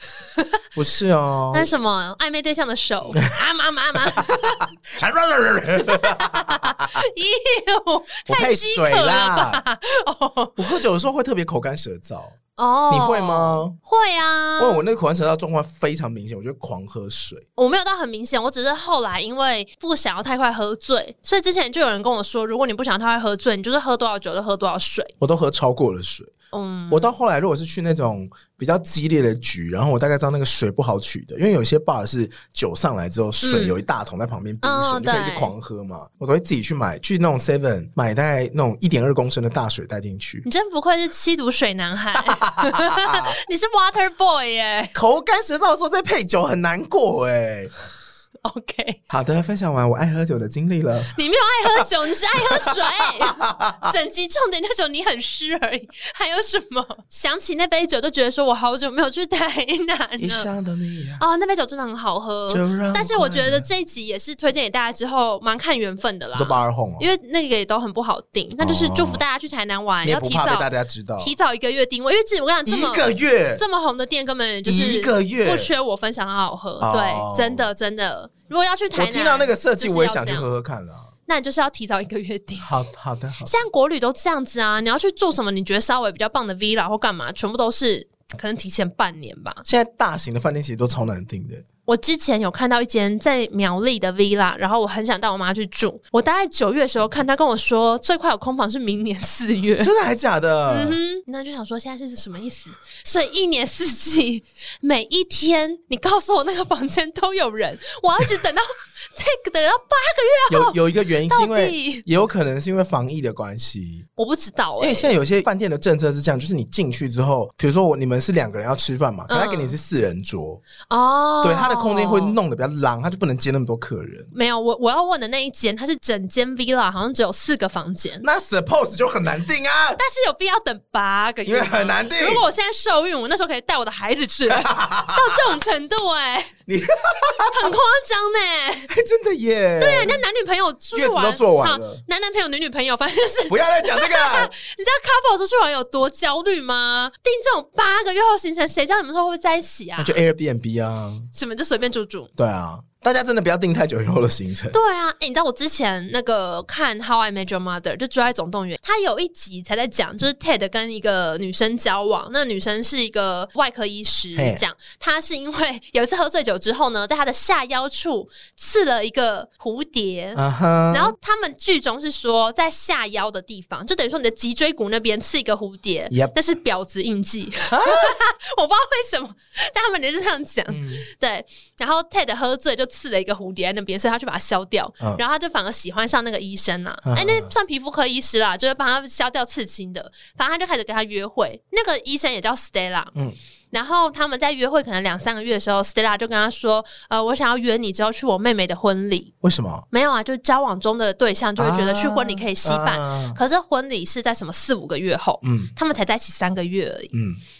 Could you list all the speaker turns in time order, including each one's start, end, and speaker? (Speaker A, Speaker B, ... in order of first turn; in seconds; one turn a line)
Speaker A: 0.7-1.7
Speaker B: 1.5-4.7
Speaker A: 4.0-7.0
Speaker B: 5.8-10.6
Speaker A: 8.3-9.6
Speaker A: 10.6-12.4
Speaker B: 12.6-14.8
Speaker A: 12.9-13.8
Speaker A: 14.6-17.4
Speaker B: 17.6-25.1
Speaker A: 25.2-26.4
Speaker B: 26.5-27.1
Speaker A: 26.9-40.5
Speaker B: 33.4-33.8
Speaker B: 34.6-35.5
Speaker B: 40.5-45.0
Speaker A: 42.2-43.4
Speaker A: 44.9-47.7
Speaker B: 48.4-49.0
Speaker A: 49.1-51.2
Speaker B: 51.1-60.5
Speaker A: 52.4-53.9
Speaker A: 60.2-61.2
Speaker B: 61.2-80.5
Speaker A: 62.5-63.7
Speaker A: 66.3-67.1
Speaker A: 68.6-69.2
Speaker A: 70.0-71.3
Speaker A: 72.7-73.6
Speaker A: 74.7-75.7
Speaker A: 76.8-77.7
Speaker A: 79.0-81.1
Speaker B: 81.3-82.7
Speaker A: 82.6-83.5
Speaker B: 83.5-89.6
Speaker A: 89.7-91.6
Speaker B: 91.9-99.9
Speaker A: 99.8-101.0
Speaker B: 100.7-110.8
Speaker A: 110.5-114.1
Speaker B: 111.3-112.0
Speaker B: 114.2-115.2
Speaker A: 114.8-120.6
Speaker B: 119.3-119.8
Speaker B: 120.8-122.4
Speaker A: 121.4-124.3
Speaker B: 124.3-128.2
Speaker A: 128.2-130.0
Speaker B: 130.0-136.6
Speaker A: 131.4-132.5
Speaker A: 134.5-135.5
Speaker A: 136.7-137.7
Speaker B: 137.5-138.9
Speaker A: 138.9-140.2
Speaker B: 139.8-150.2
Speaker A: 140.9-142.0
Speaker A: 143.5-144.5
Speaker A: 150.0-151.3
Speaker B: 151.3-152.3
Speaker A: 152.4-154.8
Speaker B: 154.7-193.1
Speaker A: 164.3-164.6
Speaker A: 170.3-171.1
Speaker A: 176.1-176.3
Speaker A: 177.7-178.2
Speaker A: 180.7-181.1
Speaker A: 187.0-187.5
Speaker B: 193.7-199.3
Speaker A: 199.4-199.8
Speaker B: 199.9-207.1
Speaker A: 201.6-203.4
Speaker A: 205.4-205.7
Speaker A: 207.1-207.4